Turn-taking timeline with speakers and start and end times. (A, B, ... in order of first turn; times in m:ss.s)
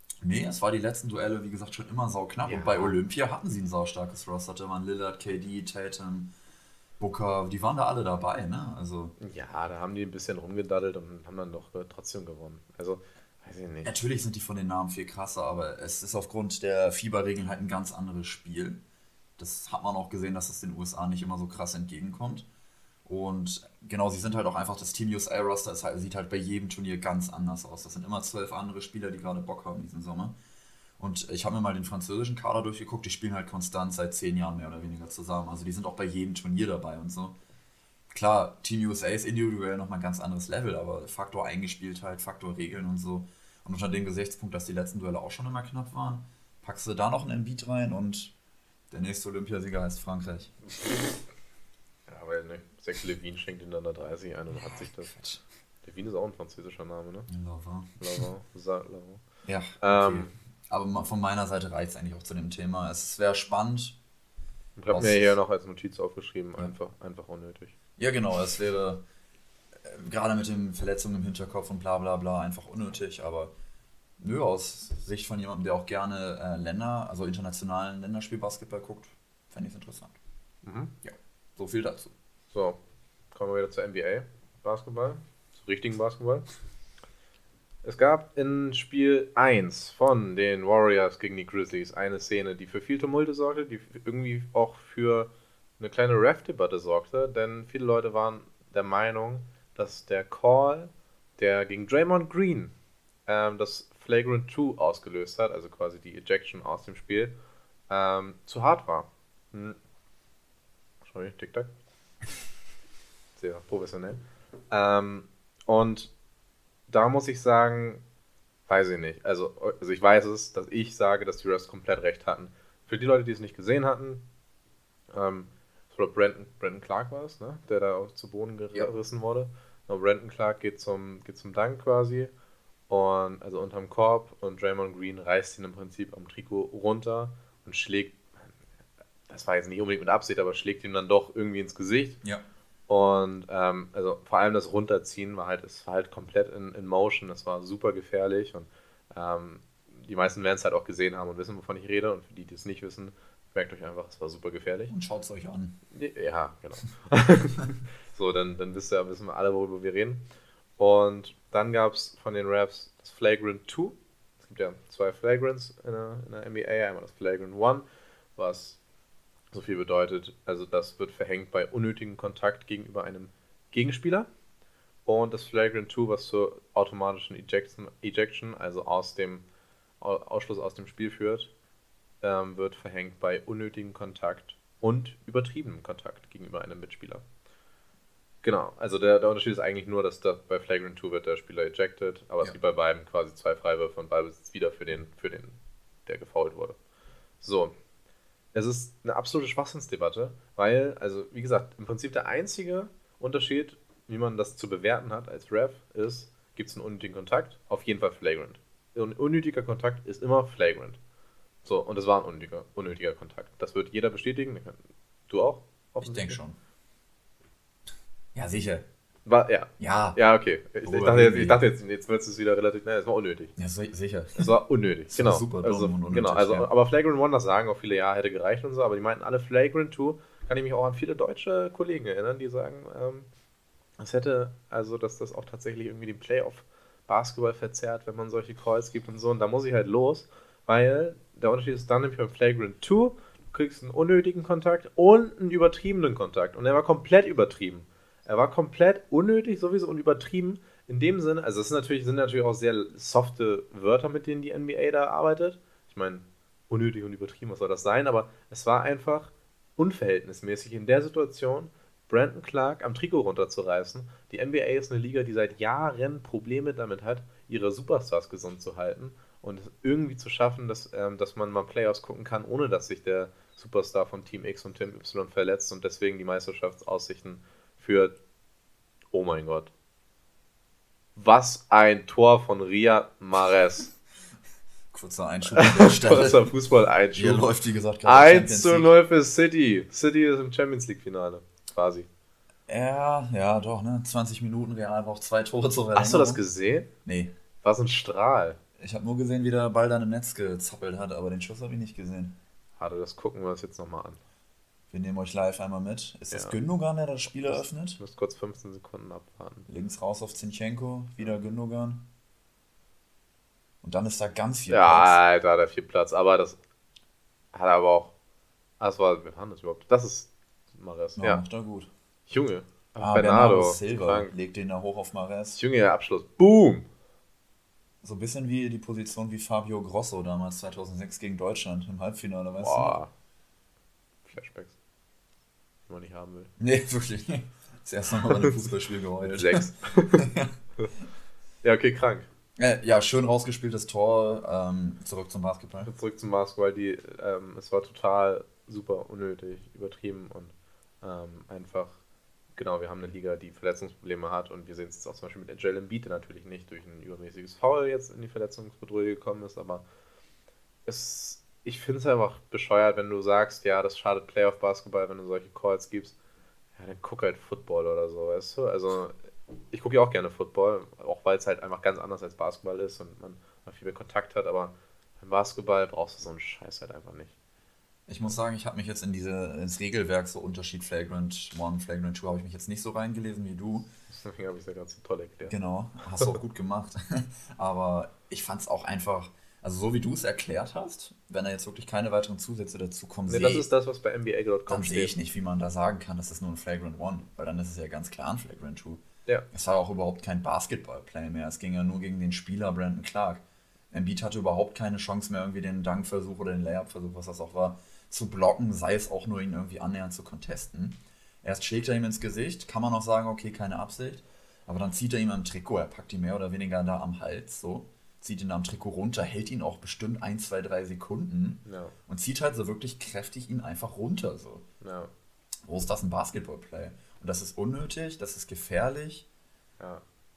0:00.2-0:06.3 A
0:02.4-0:03.0 B
0:07.0-0:09.2 A
0:09.2-0:14.0 B
0:13.8-0:18.8 A
0:19.4-0:22.5 A
0:23.0-0:30.4 A
0:31.0-0:37.4 A
0:38.1-0:48.3 A
0:48.9-0:50.6 A
0:50.7-0:51.1 B
0:52.1-0:55.1 B
0:54.5-0:55.4 A
0:55.8-0:57.3 B
0:57.3-0:58.0 A
0:58.0-0:59.2 B
0:59.4-1:04.0 A
0:59.8-1:00.3 B
1:04.8-1:07.8 B
1:04.9-1:05.4 A
1:08.0-1:09.0 A
1:09.8-1:13.5 A
1:14.2-1:20.2 A
1:20.6-1:20.9 B
1:21.0-1:22.1 A
1:22.5-1:22.8 B
1:23.3-1:26.5 B
1:27.8-1:42.7 B
1:43.3-1:47.4 B
1:47.9-1:49.8 B
1:51.0-1:51.7 B
1:53.4-1:56.1 B
1:56.9-1:58.0 B
1:58.7-2:04.3 B
2:05.1-2:12.3 B
2:12.9-2:18.5 B
2:19.3-2:22.2 B
2:22.9-2:34.9 B
2:34.9-2:35.8 A
2:35.9-2:40.3 B
2:40.8-2:48.8 B
2:49.5-2:54.3 B
2:55.1-2:59.4 B
3:00.0-3:01.5 B
3:02.2-3:07.2 B
3:08.4-3:16.8 B
3:17.4-3:17.8 B
3:18.5-3:31.0 B
3:31.6-3:36.4 B
3:36.0-3:36.6 A
3:38.4-3:38.9 A
3:39.2-3:43.5 B
3:39.8-3:40.2 A
3:40.8-3:41.6 A
3:43.6-3:44.5 A
3:44.4-3:53.3 B
3:45.1-3:46.7 A
3:54.0-4:38.2 B
4:39.1-4:39.7 B
4:41.2-4:43.9 B
4:44.9-4:46.5 A
4:45.6-4:47.5 B
4:47.2-4:48.9 A
4:48.0-4:52.1 B
4:52.7-4:56.4 A
4:55.9-4:56.9 B
4:57.0-4:57.3 A
4:57.6-4:58.6 B
4:58.8-5:02.4 A
5:02.8-5:04.2 B
5:04.9-5:08.0 A
5:06.3-5:06.6 B
5:07.5-5:09.7 B
5:09.7-5:12.1 A
5:13.8-5:15.2 A
5:14.7-5:16.6 B
5:17.5-5:18.1 B
5:18.8-5:21.4 B
5:21.2-5:21.9 A
5:22.3-5:24.3 B
5:23.0-5:25.6 A
5:25.6-5:26.9 B
5:28.0-5:33.0 A
5:32.6-5:33.1 B
5:34.3-5:34.8 B
5:35.9-5:36.5 B
5:36.6-5:40.5 A
5:38.3-5:38.6 B
5:39.2-5:40.9 B
5:41.6-5:42.3 B
5:42.6-5:45.9 A
5:45.8-5:52.0 B
5:52.6-5:59.8 B
6:00.9-6:06.2 B
6:06.8-6:09.2 B
6:09.7-6:17.4 B
6:18.1-6:23.9 A
6:24.1-6:25.6 B
6:25.5-6:33.7 A
6:33.3-6:35.1 B
6:34.7-7:04.7 A
7:01.6-7:02.0 B
7:04.8-7:05.1 B
7:05.7-7:09.3 A